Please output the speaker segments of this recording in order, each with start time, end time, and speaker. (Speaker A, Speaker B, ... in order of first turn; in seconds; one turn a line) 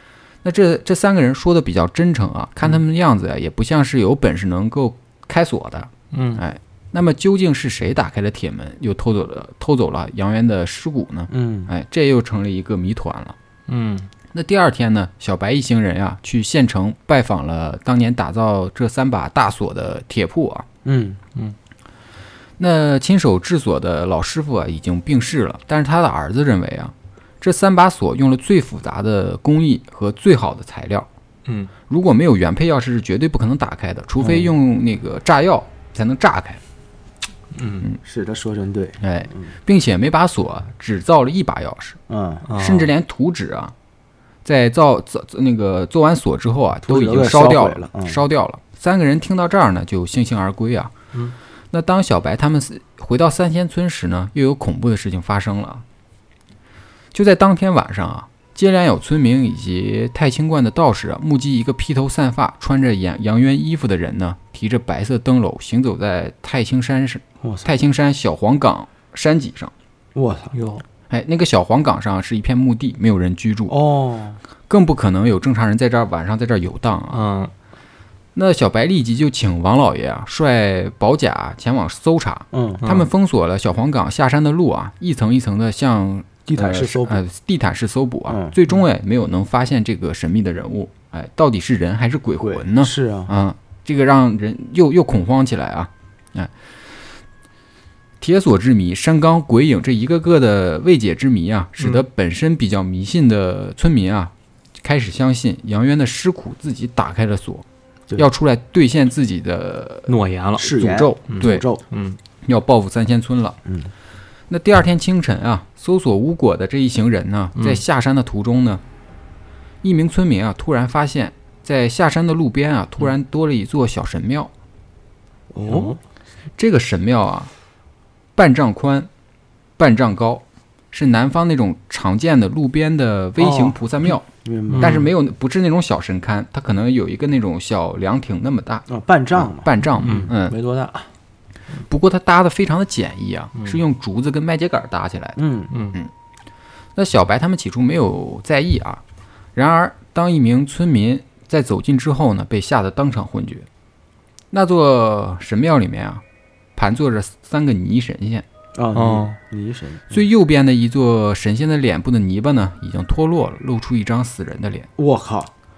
Speaker A: 0.4-13.3
Speaker B: 6.1-6.4
Speaker C: 11.3-11.7
Speaker B: 13.7-14.1
Speaker A: 14.3-20.6
Speaker C: 20.8-21.2
Speaker A: 22.6-31.1
Speaker B: 31.4-31.7
Speaker A: 31.9-36.6
Speaker C: 34.2-34.5
Speaker B: 37.5-37.9
Speaker C: 38.0-39.5
Speaker A: 39.0-42.0
Speaker C: 42.1-42.5
Speaker B: 42.5-42.9
Speaker A: 42.5-43.7
Speaker A: 44.4-50.9
Speaker C: 46.8-48.2
Speaker A: 51.7-55.8
Speaker A: 57.1-69.7
Speaker C: 67.4-67.7
Speaker C: 70.1-70.5
Speaker B: 70.5-70.8
Speaker A: 71.1-73.8
Speaker C: 73.7-74.4
Speaker A: 74.7-77.2
Speaker B: 77.1-77.5
Speaker A: 78.3-96.5
Speaker C: 82.5-82.8
Speaker B: 82.8-83.1
Speaker C: 86.5-87.2
Speaker C: 88.3-88.5
Speaker C: 92.4-93.3
Speaker A: 98.2-107.6
Speaker A: 108.2-110.1
Speaker B: 110.1-110.7
Speaker C: 110.5-111.8
Speaker A: 110.6-111.7
Speaker B: 111.3-112.2
Speaker A: 112.4-113.6
Speaker C: 113.7-113.9
Speaker A: 114.5-118.8
Speaker B: 117.5-117.8
Speaker A: 119.8-124.5
Speaker C: 125.5-126.0
Speaker B: 125.7-126.0
Speaker A: 126.6-127.5
Speaker A: 128.3-129.1
Speaker A: 129.8-134.3
Speaker C: 133.4-133.8
Speaker C: 134.3-135.1
Speaker B: 134.7-135.1
Speaker A: 134.8-140.5
Speaker C: 138.9-140.3
Speaker B: 140.0-141.1
Speaker A: 141.9-145.4
Speaker B: 143.5-143.8
Speaker C: 145.4-145.7
Speaker B: 145.7-146.0
Speaker A: 146.9-149.0
Speaker A: 149.5-153.7
Speaker A: 154.5-156.2
Speaker A: 156.8-158.4
Speaker C: 158.7-160.2
Speaker B: 158.9-159.4
Speaker A: 160.1-164.9
Speaker C: 165.0-165.5